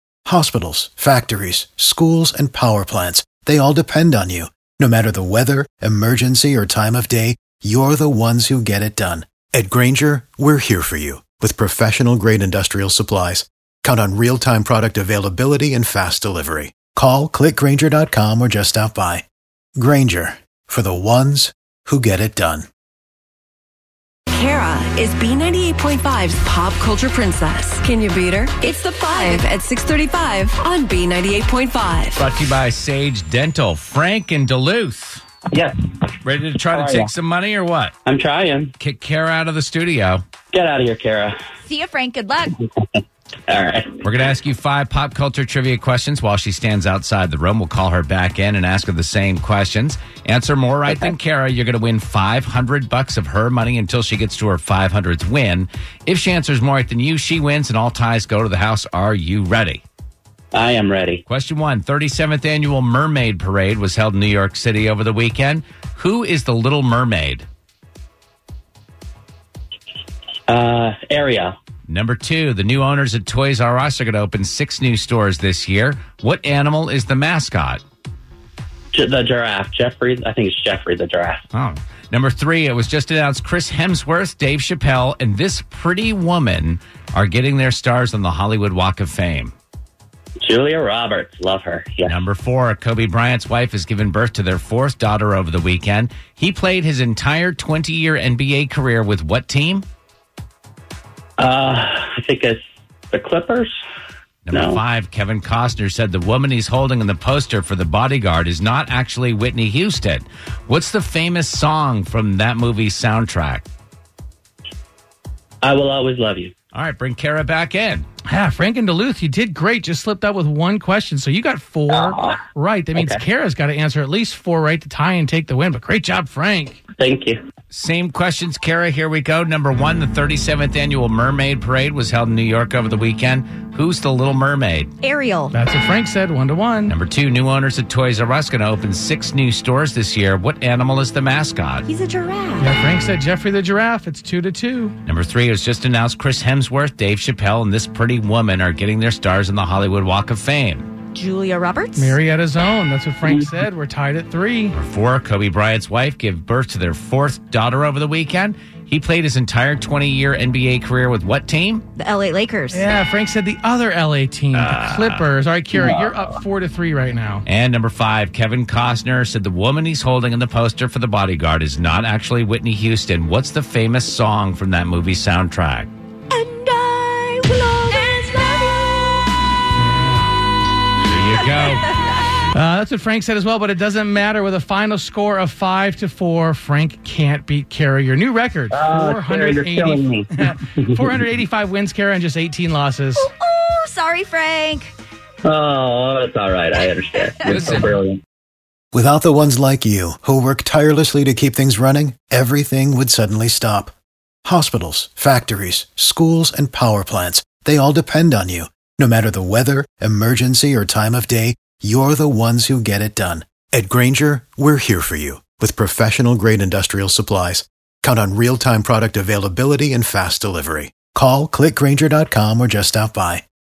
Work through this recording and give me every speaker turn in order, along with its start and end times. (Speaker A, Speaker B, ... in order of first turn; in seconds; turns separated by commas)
Speaker A: 0.3-19.2, Speaker A: 19.8-22.7, Speaker B: 24.3-32.2, Speaker C: 28.6-29.5, Speaker D: 32.1-35.2, Speaker E: 35.5-35.8, Speaker D: 36.2-37.9, Speaker E: 36.7-37.1, Speaker E: 38.1-38.7, Speaker D: 38.8-40.2, Speaker E: 40.5-41.3, Speaker C: 41.6-42.6, Speaker E: 43.5-44.0, Speaker D: 44.0-59.8, Speaker E: 60.5-61.2, Speaker D: 61.3-67.5, Speaker E: 70.5-71.5, Speaker D: 71.9-77.8, Speaker E: 78.9-81.4, Speaker D: 81.5-89.5, Speaker E: 90.4-92.2, Speaker D: 92.0-99.8, Speaker E: 101.4-102.6, Speaker E: 103.1-103.7, Speaker D: 104.5-113.7, Speaker E: 104.5-104.8, Speaker E: 115.6-116.5, Speaker D: 116.7-118.1, Speaker F: 118.3-126.8, Speaker E: 121.9-122.4, Speaker E: 123.0-123.2, Speaker E: 127.0-127.4, Speaker D: 127.7-134.9, Speaker C: 135.0-135.5, Speaker F: 135.5-136.9, Speaker D: 136.9-141.8, Speaker C: 141.9-142.7, Speaker F: 142.6-144.9, Speaker D: 145.1-150.9, Speaker C: 151.1-152.2, Speaker F: 151.9-154.7, Speaker E: 153.2-153.5, Speaker D: 154.7-161.8, Speaker C: 162.0-162.8, Speaker F: 162.7-167.4, Speaker D: 164.5-165.2, Speaker E: 165.7-166.4, Speaker D: 167.5-175.9, Speaker C: 176.3-179.3, Speaker F: 179.8-180.3, Speaker D: 181.0-181.9, Speaker C: 181.5-181.9, Speaker F: 182.5-193.3, Speaker E: 188.7-191.2, Speaker C: 193.2-194.9, Speaker E: 195.4-198.2, Speaker C: 197.1-197.6, Speaker D: 197.5-197.9, Speaker A: 198.9-203.9, Speaker A: 204.4-223.4